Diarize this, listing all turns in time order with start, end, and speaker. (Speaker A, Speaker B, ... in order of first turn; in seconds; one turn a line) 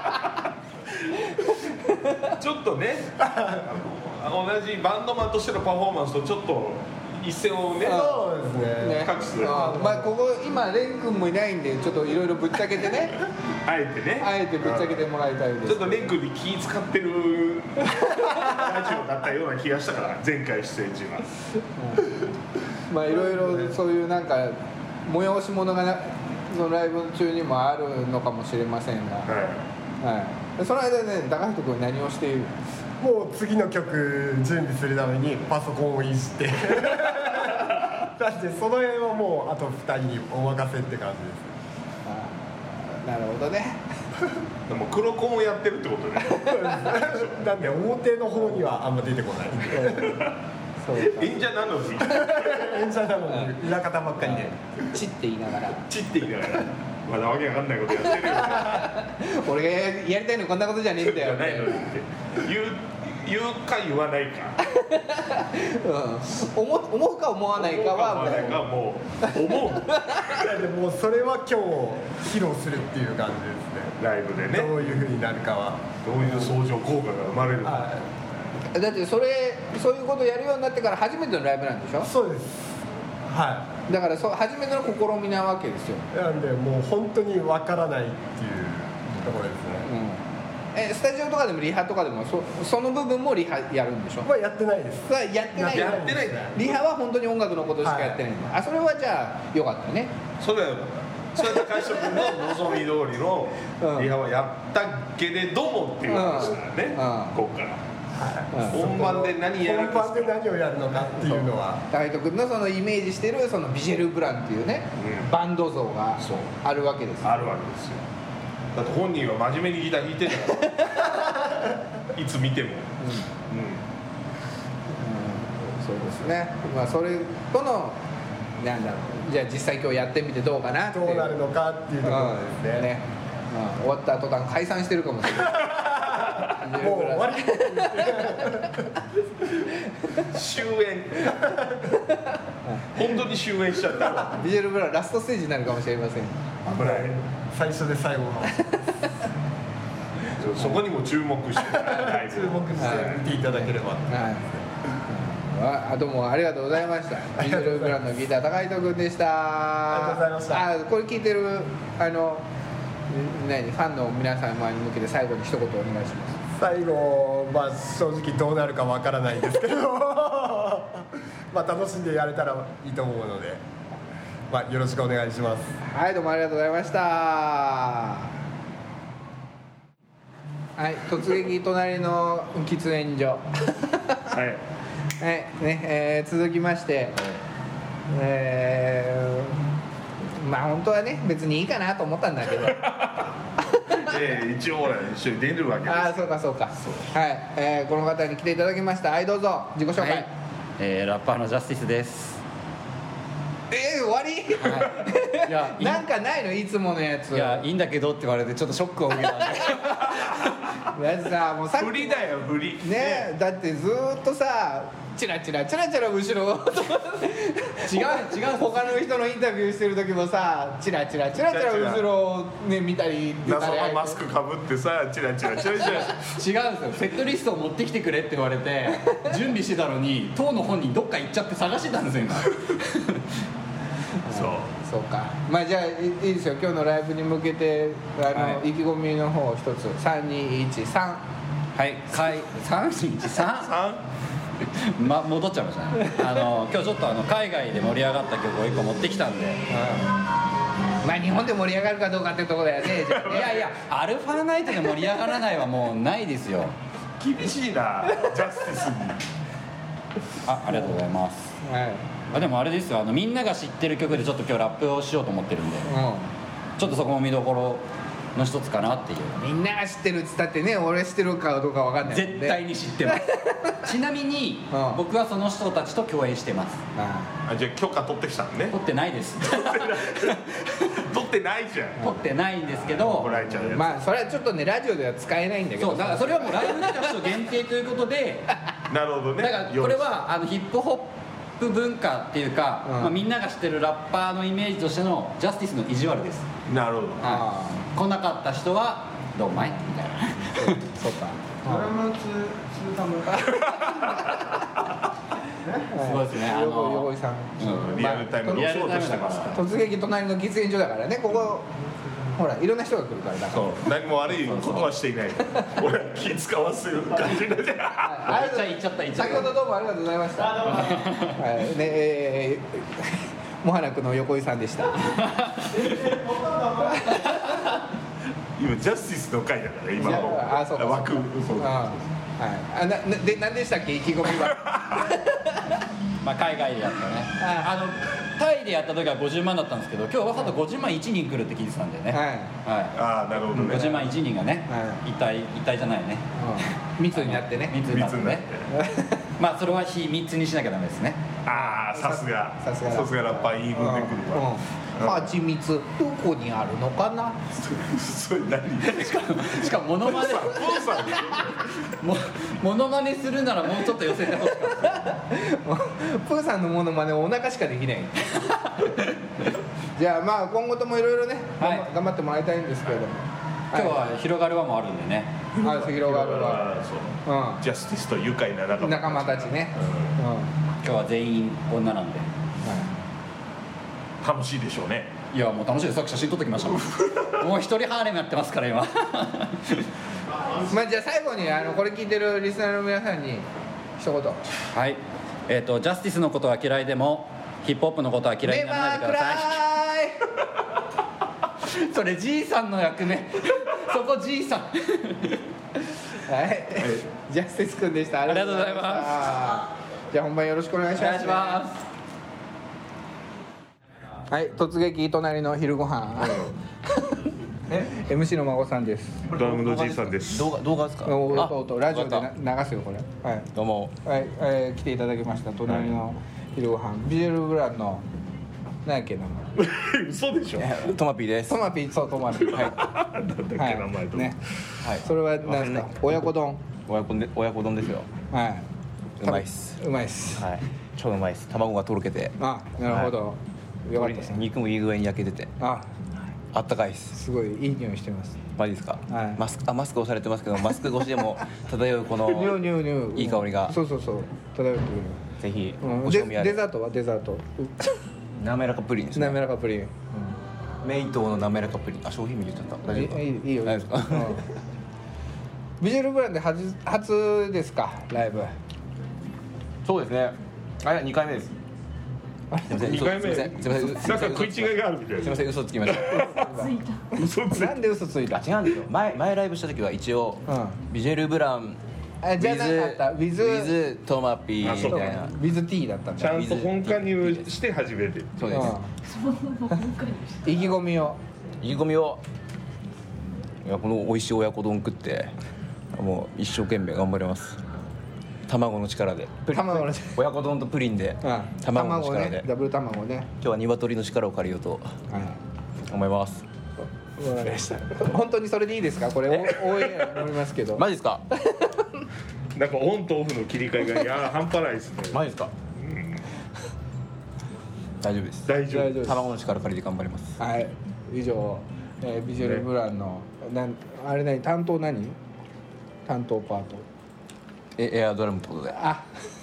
Speaker A: 1.9-2.4
Speaker B: 2.4-8.1
Speaker C: 3.2-3.6
Speaker C: 7.8-10.1
Speaker A: 7.8-13.2
Speaker B: 8.9-9.7
Speaker B: 13.7-15.0
Speaker A: 14.2-16.1
Speaker B: 15.6-21.3
Speaker A: 18.0-18.3
Speaker A: 21.8-22.1
Speaker A: 22.9-29.3
Speaker C: 23.1-23.7
Speaker B: 29.3-29.6
Speaker A: 30.0-32.5
Speaker C: 33.0-41.5
Speaker A: 42.1-43.8
Speaker B: 44.7-47.7
Speaker A: 46.3-46.8
Speaker C: 46.4-50.2
Speaker A: 49.8-50.2
Speaker B: 49.8-50.4
Speaker A: 50.8-51.3
Speaker B: 51.0-52.8
Speaker C: 52.0-54.5
Speaker A: 53.3-53.6
Speaker A: 54.2-55.9
Speaker B: 55.9-58.9
Speaker A: 58.0-61.9
Speaker B: 61.0-64.6
Speaker A: 64.7-68.6
Speaker B: 67.6-70.4
Speaker A: 69.9-70.3
Speaker C: 70.3-76.5
Speaker B: 74.0-74.9
Speaker B: 76.0-77.9
Speaker C: 77.6-78.0
Speaker A: 78.7-82.1
Speaker C: 82.0-82.6
Speaker C: 83.2-83.7
Speaker A: 83.9-86.1
Speaker C: 86.1-89.9
Speaker A: 89.8-90.2
Speaker A: 90.7-94.3
Speaker C: 94.2-96.5
Speaker A: 95.1-100.1
Speaker B: 95.6-96.8
Speaker C: 97.8-98.2
Speaker B: 100.4-107.8
Speaker A: 101.4-102.2
Speaker A: 103.8-104.1
Speaker A: 106.1-107.4
Speaker C: 108.1-111.8
Speaker A: 108.5-108.8
Speaker B: 108.7-110.3
Speaker A: 111.1-117.3
Speaker B: 115.0-115.3
Speaker B: 117.2-118.0
Speaker B: 118.7-121.2
Speaker A: 120.7-121.2
Speaker B: 122.1-122.9
Speaker A: 123.0-123.3
Speaker B: 123.5-123.8
Speaker A: 125.0-128.0
Speaker A: 128.6-131.4
Speaker C: 130.9-132.9
Speaker A: 132.1-135.8
Speaker C: 135.4-139.0
Speaker A: 136.5-138.7
Speaker B: 140.2-141.6
Speaker C: 141.4-141.9
Speaker B: 142.9-144.4
Speaker A: 144.1-146.4
Speaker B: 146.7-147.2
Speaker C: 146.7-148.7
Speaker B: 150.4-153.0
Speaker C: 151.6-154.7
Speaker A: 152.8-153.3
Speaker A: 154.1-154.5
Speaker A: 155.1-162.4
Speaker C: 157.4-157.9
Speaker C: 159.9-160.7
Speaker A: 163.1-166.4
Speaker C: 166.6-173.6
Speaker C: 174.5-175.8
Speaker A: 175.9-178.3
Speaker A: 180.8-184.2
Speaker B: 184.3-184.6
Speaker A: 185.2-187.2
Speaker A: 188.1-189.6
Speaker A: 190.3-192.9
Speaker B: 192.6-193.3
Speaker A: 193.7-194.1
Speaker B: 193.9-196.3
Speaker A: 195.9-200.3
Speaker D: 200.0-202.4
Speaker A: 203.7-207.7
Speaker D: 205.4-206.1
Speaker D: 207.3-210.4
Speaker A: 210.9-212.3
Speaker B: 211.8-213.3
Speaker A: 212.8-224.2
Speaker D: 217.8-218.8
Speaker B: 221.4-222.1
Speaker B: 223.5-226.4
Speaker D: 225.8-233.3
Speaker A: 234.3-241.2
Speaker B: 234.3-234.7
Speaker D: 238.3-238.6
Speaker D: 241.8-243.7
Speaker B: 243.3-244.0
Speaker D: 244.6-249.6
Speaker A: 249.7-250.1
Speaker A: 251.0-253.6
Speaker B: 253.0-253.7
Speaker D: 253.3-256.7
Speaker B: 257.2-259.2
Speaker D: 260.5-261.5
Speaker A: 261.6-262.1
Speaker D: 262.3-265.9
Speaker A: 265.9-266.3
Speaker D: 266.8-267.8
Speaker D: 268.4-269.4
Speaker A: 269.4-273.9
Speaker D: 272.0-276.8
Speaker A: 274.7-275.0
Speaker A: 276.9-277.3
Speaker B: 277.5-278.8
Speaker D: 278.7-281.0
Speaker B: 279.4-282.1
Speaker D: 282.0-283.4
Speaker B: 282.7-283.9
Speaker A: 283.7-287.1
Speaker D: 285.8-288.5
Speaker B: 288.9-290.1
Speaker D: 289.4-296.5
Speaker A: 292.9-293.2
Speaker B: 296.7-297.3
Speaker A: 297.2-297.9
Speaker D: 297.2-300.8
Speaker A: 300.6-301.9
Speaker E: 301.7-303.6
Speaker B: 303.7-304.3
Speaker A: 305.9-308.7
Speaker D: 306.0-309.6
Speaker B: 307.6-309.6
Speaker A: 309.5-311.7
Speaker A: 312.4-313.9
Speaker B: 313.5-318.3
Speaker A: 318.0-320.7
Speaker D: 318.2-319.5
Speaker E: 320.4-321.3
Speaker D: 320.8-321.4
Speaker A: 321.3-325.1
Speaker D: 325.1-325.8
Speaker E: 325.7-327.3
Speaker A: 326.9-327.8
Speaker B: 328.6-331.9
Speaker A: 330.0-335.8
Speaker B: 334.7-335.0
Speaker D: 336.2-342.9
Speaker A: 337.4-337.7
Speaker A: 342.1-342.5
Speaker B: 343.0-344.1
Speaker D: 343.5-348.4
Speaker A: 344.7-345.0
Speaker A: 346.4-347.8
Speaker B: 347.9-348.7
Speaker A: 348.7-349.2
Speaker D: 349.4-351.2
Speaker B: 351.4-355.3
Speaker A: 351.5-357.4
Speaker B: 357.6-361.8
Speaker D: 358.8-361.4
Speaker D: 361.9-365.1
Speaker A: 364.8-368.5
Speaker A: 370.0-374.2
Speaker D: 371.6-371.9
Speaker D: 373.7-375.3
Speaker B: 375.6-380.1
Speaker A: 375.6-376.7
Speaker A: 377.2-377.6
Speaker A: 378.8-380.5
Speaker D: 380.8-382.3
Speaker A: 382.6-383.0
Speaker B: 384.2-385.1
Speaker D: 385.3-389.9
Speaker B: 386.9-387.4
Speaker A: 390.6-393.5
Speaker A: 394.0-394.4
Speaker D: 394.7-399.6
Speaker A: 398.4-400.2
Speaker D: 401.6-405.4
Speaker A: 406.3-411.6
Speaker D: 408.3-409.6
Speaker D: 410.9-411.8
Speaker A: 414.3-419.2
Speaker B: 416.2-416.5
Speaker B: 419.3-420.5
Speaker F: 419.3-422.3
Speaker A: 421.1-423.5
Speaker F: 423.5-423.9
Speaker A: 424.0-428.0
Speaker A: 428.9-429.5
Speaker B: 429.6-430.9
Speaker F: 430.6-431.6
Speaker A: 431.5-432.8
Speaker B: 432.4-434.9
Speaker A: 433.6-434.4
Speaker F: 434.8-436.3
Speaker A: 435.0-436.6
Speaker F: 436.9-438.1
Speaker A: 438.3-438.7
Speaker F: 439.2-439.8
Speaker A: 439.2-440.4
Speaker F: 440.4-442.4
Speaker A: 442.4-444.4
Speaker F: 442.9-443.1
Speaker F: 443.9-445.5
Speaker A: 445.6-445.9
Speaker F: 446.5-447.1
Speaker A: 447.1-448.4
Speaker F: 448.6-453.8
Speaker A: 449.1-449.4
Speaker A: 452.3-455.2
Speaker F: 455.4-456.6
Speaker A: 455.8-457.9
Speaker F: 458.4-459.4
Speaker A: 459.1-460.2
Speaker F: 460.8-464.4
Speaker A: 462.9-464.5
Speaker A: 465.8-468.5
Speaker F: 469.8-471.6
Speaker F: 472.7-476.5
Speaker B: 472.7-476.3
Speaker A: 476.1-478.5
Speaker B: 477.1-477.7
Speaker F: 478.4-481.8
Speaker A: 480.5-480.8
Speaker A: 482.2-483.7
Speaker F: 482.4-485.4
Speaker B: 484.6-485.2
Speaker A: 484.9-486.4
Speaker B: 486.2-488.6
Speaker F: 486.2-487.5
Speaker F: 488.4-488.8
Speaker A: 488.5-488.9
Speaker A: 490.4-491.2
Speaker F: 491.6-492.2
Speaker F: 493.6-495.3
Speaker F: 495.9-497.6
Speaker F: 498.5-502.5
Speaker A: 499.5-500.2
Speaker A: 501.2-503.3
Speaker F: 503.4-504.9
Speaker A: 505.1-505.4
Speaker F: 505.8-506.4
Speaker A: 507.2-511.9
Speaker F: 509.3-509.6
Speaker F: 510.8-511.2
Speaker B: 512.5-515.2
Speaker F: 515.1-515.5
Speaker B: 515.8-516.2
Speaker F: 518.0-520.4
Speaker B: 518.5-519.0
Speaker A: 518.7-519.2
Speaker A: 520.4-525.2
Speaker A: 526.1-526.9
Speaker F: 527.8-528.8
Speaker A: 528.8-529.0